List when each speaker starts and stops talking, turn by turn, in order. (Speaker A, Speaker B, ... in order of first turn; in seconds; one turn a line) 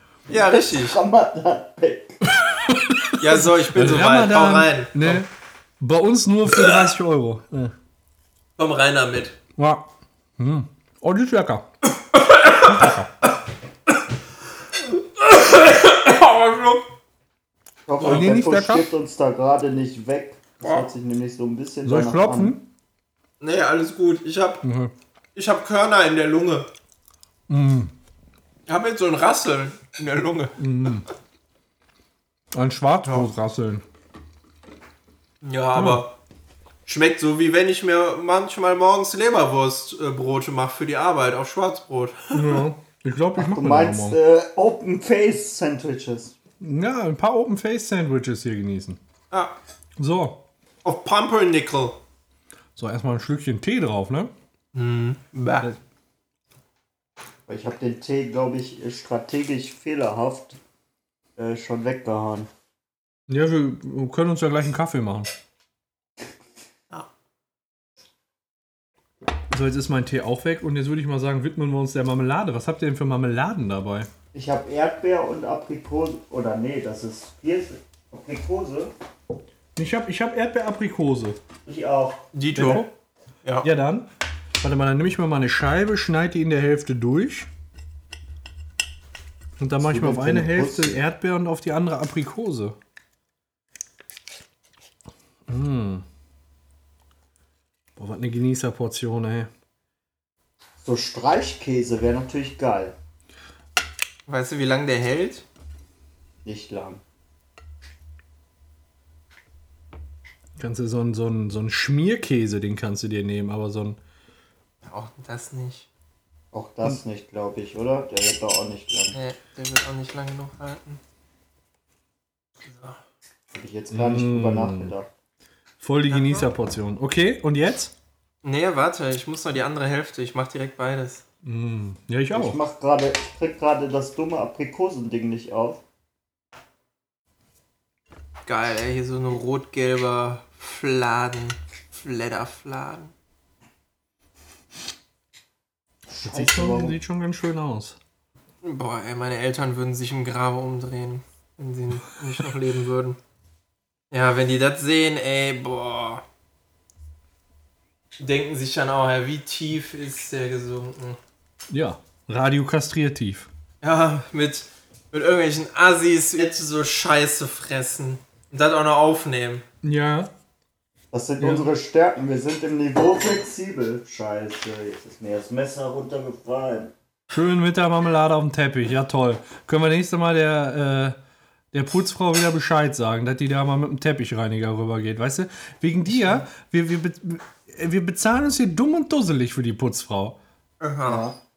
Speaker A: 0.3-1.0
Speaker B: 0.3-2.2
Speaker C: 2.2-5.3
Speaker A: 3.2-5.2
Speaker C: 5.8-7.7
Speaker A: 8.6-9.4
Speaker C: 9.6-11.7
Speaker A: 12.0-12.9
Speaker C: 12.6-13.1
Speaker A: 14.8-16.9
Speaker B: 17.9-22.6
Speaker A: 18.0-18.3
Speaker C: 18.0-18.9
Speaker A: 20.6-20.9
Speaker C: 21.8-22.6
Speaker A: 23.4-24.6
Speaker C: 24.6-24.9
Speaker A: 25.4-26.7
Speaker C: 27.5-27.9
Speaker A: 28.7-30.6
Speaker C: 30.6-31.1
Speaker C: 32.5-33.8
Speaker A: 35.4-36.1
Speaker C: 35.7-36.0
Speaker A: 36.9-42.6
Speaker C: 42.3-44.2
Speaker B: 43.4-46.3
Speaker C: 46.6-49.0
Speaker C: 50.0-50.4
Speaker A: 50.8-52.0
Speaker C: 52.8-54.3
Speaker A: 54.7-55.7
Speaker B: 57.5-60.6
Speaker B: 61.4-62.5
Speaker C: 63.3-65.3
Speaker C: 69.5-74.1
Speaker B: 74.3-78.9
Speaker C: 79.8-81.4
Speaker B: 81.6-82.2
Speaker A: 82.3-82.9
Speaker C: 82.5-82.9
Speaker C: 83.6-84.1
Speaker C: 84.6-87.5
Speaker C: 89.6-92.8
Speaker B: 89.8-91.0
Speaker C: 95.5-96.0
Speaker C: 98.0-99.5
Speaker B: 100.8-103.0
Speaker A: 104.3-105.4
Speaker B: 106.4-107.0
Speaker C: 110.6-114.0
Speaker A: 114.8-115.9
Speaker B: 116.5-119.2
Speaker A: 119.1-121.0
Speaker A: 122.6-123.0
Speaker B: 123.5-125.1
Speaker C: 123.9-124.9
Speaker C: 125.8-127.9
Speaker A: 126.1-126.5
Speaker A: 128.4-131.2
Speaker C: 131.4-132.6
Speaker B: 132.3-135.8
Speaker A: 138.4-143.1
Speaker B: 146.1-147.0
Speaker C: 146.2-148.0
Speaker A: 148.6-153.2
Speaker A: 154.1-156.2
Speaker A: 158.2-161.2
Speaker C: 161.7-163.5
Speaker A: 163.8-169.6
Speaker C: 169.8-170.3
Speaker B: 171.1-176.9
Speaker C: 171.4-171.7
Speaker C: 177.3-181.2
Speaker C: 181.7-190.4
Speaker A: 190.8-191.2
Speaker B: 191.1-191.4